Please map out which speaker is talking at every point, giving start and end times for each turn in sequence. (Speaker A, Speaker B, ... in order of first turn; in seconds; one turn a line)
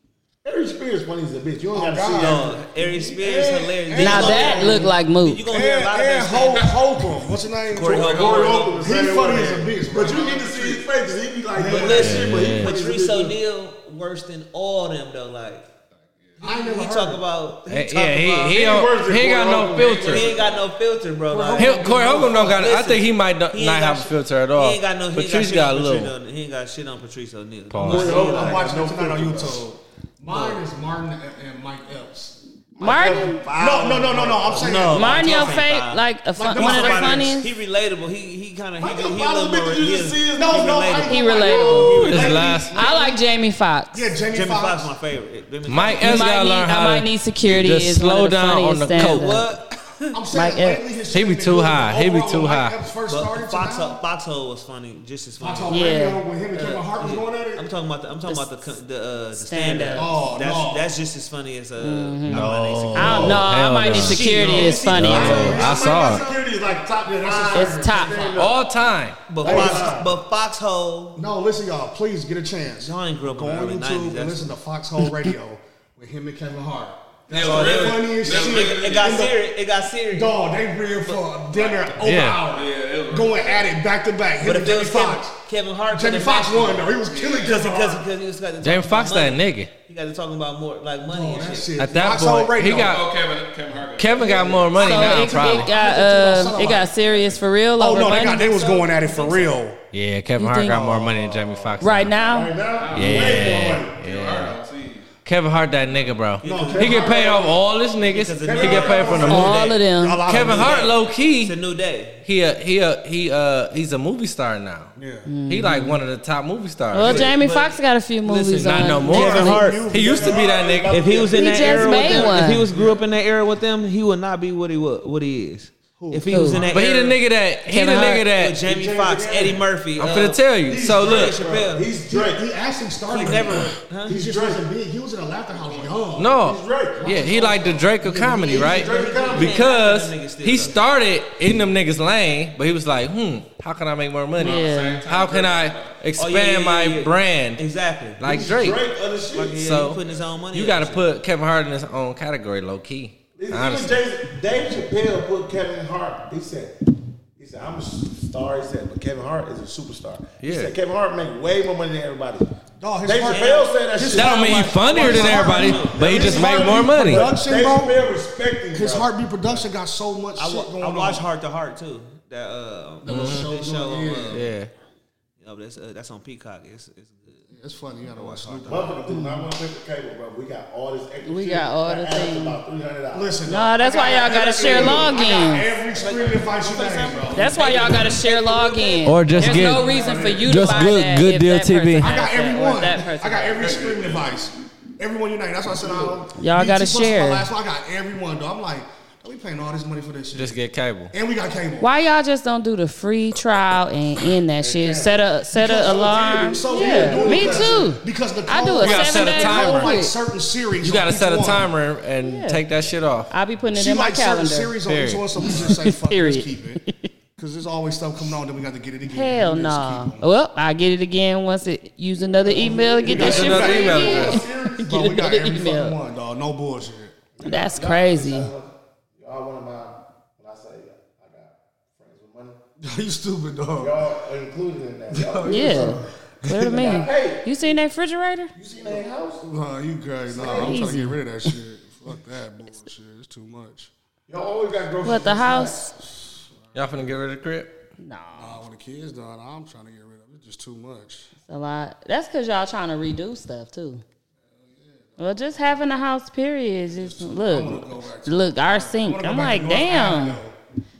Speaker A: 0.4-4.8
Speaker B: 1.7-5.0
Speaker C: 2.1-6.8
Speaker D: 4.0-5.4
Speaker B: 5.5-8.1
Speaker C: 7.7-9.7
Speaker A: 7.8-13.3
Speaker E: 7.9-8.8
Speaker B: 8.7-10.7
Speaker B: 11.5-12.8
Speaker C: 11.6-15.7
Speaker F: 11.9-12.7
Speaker E: 16.2-16.5
Speaker B: 16.4-17.2
Speaker C: 16.4-18.7
Speaker F: 17.7-20.3
Speaker A: 18.5-20.6
Speaker C: 19.8-28.6
Speaker B: 21.3-22.6
Speaker F: 21.6-26.1
Speaker F: 27.7-28.3
Speaker A: 27.8-29.6
Speaker B: 27.9-35.6
Speaker C: 30.3-30.6
Speaker A: 32.8-35.4
Speaker D: 32.8-33.4
Speaker C: 34.6-42.6
Speaker D: 34.9-37.5
Speaker B: 36.4-37.3
Speaker A: 38.8-42.2
Speaker B: 40.4-43.2
Speaker D: 41.1-42.0
Speaker F: 42.0-42.7
Speaker D: 42.7-44.1
Speaker B: 43.9-44.9
Speaker C: 44.3-46.3
Speaker F: 45.7-49.5
Speaker D: 46.0-49.5
Speaker C: 49.0-50.2
Speaker B: 50.1-54.0
Speaker D: 50.3-50.8
Speaker F: 51.1-52.8
Speaker C: 53.1-56.0
Speaker B: 55.4-57.7
Speaker D: 55.7-56.2
Speaker C: 56.5-65.7
Speaker D: 59.3-60.1
Speaker B: 59.9-61.0
Speaker D: 61.8-62.4
Speaker F: 62.2-66.2
Speaker D: 62.9-65.6
Speaker A: 63.0-63.4
Speaker B: 64.4-66.4
Speaker A: 65.2-68.6
Speaker B: 67.0-68.4
Speaker D: 67.5-68.4
Speaker F: 68.3-69.3
Speaker C: 69.3-71.2
Speaker A: 69.4-70.1
Speaker B: 69.4-70.0
Speaker B: 71.2-79.4
Speaker C: 72.8-74.5
Speaker E: 77.3-79.2
Speaker C: 77.3-80.4
Speaker B: 80.1-85.3
Speaker E: 81.5-83.8
Speaker F: 82.0-82.4
Speaker C: 84.4-91.7
Speaker B: 85.9-88.0
Speaker E: 87.0-87.7
Speaker F: 88.6-89.7
Speaker B: 91.1-93.0
Speaker F: 91.8-93.0
Speaker E: 92.6-94.8
Speaker F: 94.0-95.7
Speaker D: 94.7-98.5
Speaker B: 94.8-96.9
Speaker E: 96.9-97.4
Speaker B: 97.8-99.8
Speaker C: 98.2-99.6
Speaker F: 99.9-102.2
Speaker D: 100.4-101.0
Speaker B: 100.9-101.4
Speaker D: 101.8-102.6
Speaker A: 102.2-104.0
Speaker E: 102.7-105.1
Speaker F: 102.9-104.6
Speaker F: 105.2-109.7
Speaker C: 106.4-107.4
Speaker B: 106.4-107.1
Speaker A: 106.7-107.5
Speaker C: 108.0-112.2
Speaker A: 108.5-109.6
Speaker B: 108.5-110.9
Speaker D: 109.2-110.2
Speaker F: 110.2-111.5
Speaker F: 112.2-114.9
Speaker B: 115.0-115.3
Speaker D: 115.2-116.0
Speaker F: 115.5-117.3
Speaker D: 116.9-119.6
Speaker C: 117.0-119.9
Speaker F: 118.5-121.1
Speaker B: 119.1-120.4
Speaker A: 119.6-122.8
Speaker C: 120.9-127.2
Speaker D: 121.3-122.7
Speaker B: 122.7-123.0
Speaker B: 126.0-126.8
Speaker D: 126.3-126.6
Speaker F: 126.7-128.6
Speaker C: 127.8-131.9
Speaker D: 127.8-128.1
Speaker A: 128.6-129.7
Speaker F: 130.0-131.4
Speaker A: 130.7-132.5
Speaker B: 132.0-136.4
Speaker C: 133.1-134.2
Speaker A: 134.0-134.7
Speaker E: 135.5-136.2
Speaker F: 136.2-147.6
Speaker A: 136.3-139.6
Speaker B: 137.0-139.4
Speaker C: 138.8-140.8
Speaker E: 144.3-146.1
Speaker D: 144.4-145.0
Speaker C: 146.2-148.2
Speaker F: 148.2-148.8
Speaker A: 148.2-149.7
Speaker C: 149.3-151.1
Speaker F: 149.5-154.0
Speaker E: 150.0-150.3
Speaker A: 153.4-156.8
Speaker A: 157.4-162.5
Speaker F: 160.4-160.7
Speaker B: 162.8-168.1
Speaker A: 163.0-169.6
Speaker C: 163.3-163.7
Speaker F: 164.1-167.3
Speaker C: 164.4-166.6
Speaker B: 168.7-171.2
Speaker C: 170.4-174.5
Speaker B: 173.0-174.5
Speaker F: 173.1-173.5
Speaker F: 174.3-174.7
Speaker C: 175.4-177.5
Speaker B: 177.5-179.0
Speaker C: 178.0-178.9
Speaker A: 178.6-183.4
Speaker D: 179.1-179.5
Speaker D: 181.2-182.6
Speaker B: 183.1-190.9
Speaker D: 183.5-185.7
Speaker A: 184.6-185.2
Speaker C: 185.9-188.6
Speaker D: 187.3-193.8
Speaker F: 189.0-192.1
Speaker A: 190.0-190.3
Speaker B: 192.0-200.6
Speaker E: 193.6-194.5
Speaker A: 195.8-196.2
Speaker D: 196.3-197.5
Speaker F: 200.3-201.1
Speaker B: 201.1-201.9
Speaker D: 201.8-210.1
Speaker A: 204.6-205.2
Speaker B: 205.5-211.7
Speaker A: 206.6-207.9
Speaker F: 208.8-209.9
Speaker F: 210.8-213.3
Speaker D: 212.2-212.6
Speaker D: 213.3-214.8
Speaker B: 213.7-216.8
Speaker F: 214.8-215.3
Speaker D: 215.4-217.1
Speaker B: 217.4-220.3
Speaker D: 219.1-226.0
Speaker A: 222.4-224.9
Speaker B: 223.0-227.2
Speaker F: 223.1-224.4
Speaker A: 227.4-232.6
Speaker D: 227.4-228.5
Speaker B: 232.8-234.0
Speaker A: 233.8-236.1
Speaker B: 235.1-237.0
Speaker D: 235.5-238.5
Speaker A: 236.7-237.7
Speaker A: 238.5-239.4
Speaker B: 239.4-243.9
Speaker A: 240.3-241.1
Speaker D: 240.4-241.2
Speaker A: 244.3-245.9
Speaker D: 245.0-245.9
Speaker B: 246.0-247.1
Speaker F: 246.7-247.8
Speaker D: 248.0-248.6
Speaker B: 248.4-251.3
Speaker D: 251.4-254.0
Speaker B: 254.6-255.3
Speaker D: 255.2-260.4
Speaker B: 256.9-260.6